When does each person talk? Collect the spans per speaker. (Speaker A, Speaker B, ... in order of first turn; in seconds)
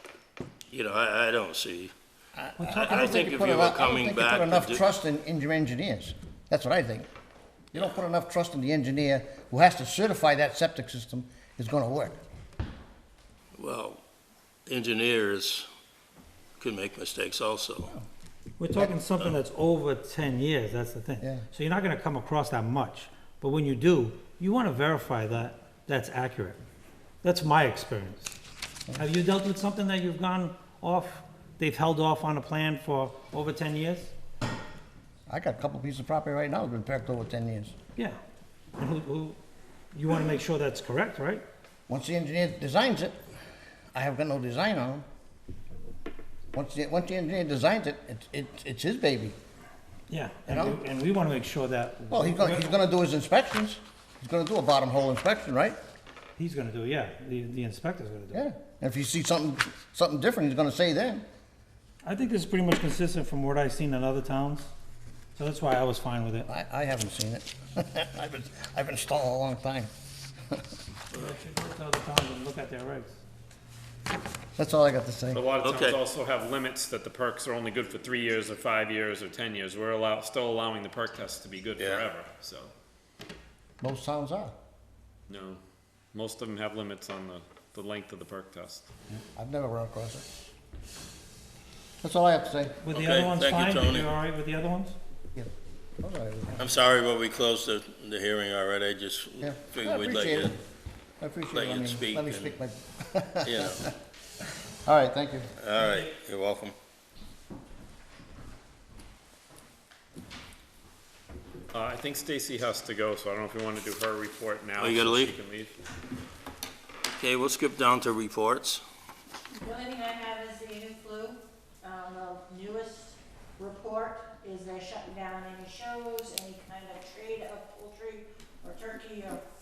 Speaker A: 0.7-1.9, 2.8-4.8, 13.6-14.0, 14.7-15.7, 16.6-17.9, 75.6-76.0, 81.8-82.0, 92.9-94.1, 96.6-100.5, 101.5-102.6, 103.4-103.8, 105.6-106.7, 114.8-115.3, 117.2-118.8
Speaker B: 2.4-7.1, 7.7-12.2, 35.3-37.7, 41.9-43.2, 43.9-45.0, 46.5-49.4, 50.5-50.8, 52.1-55.8, 58.3-61.2, 66.5-69.9, 74.6-75.4, 83.8-84.5, 89.3-90.2, 92.0-92.8, 96.0-96.7, 99.4-100.5, 101.2-103.9, 104.8-105.5
Speaker C: 2.6-3.5, 18.6-26.6, 27.2-28.3, 28.9-34.1, 38.8-39.4, 39.9-41.4, 50.1-52.8, 56.4-58.5, 62.0-64.7, 65.3-66.5, 71.1-73.2, 92.8-95.0
Speaker D: 75.3-82.7, 85.3-85.6, 86.1-88.9, 111.7-115.7
Speaker E: 119.6-129.4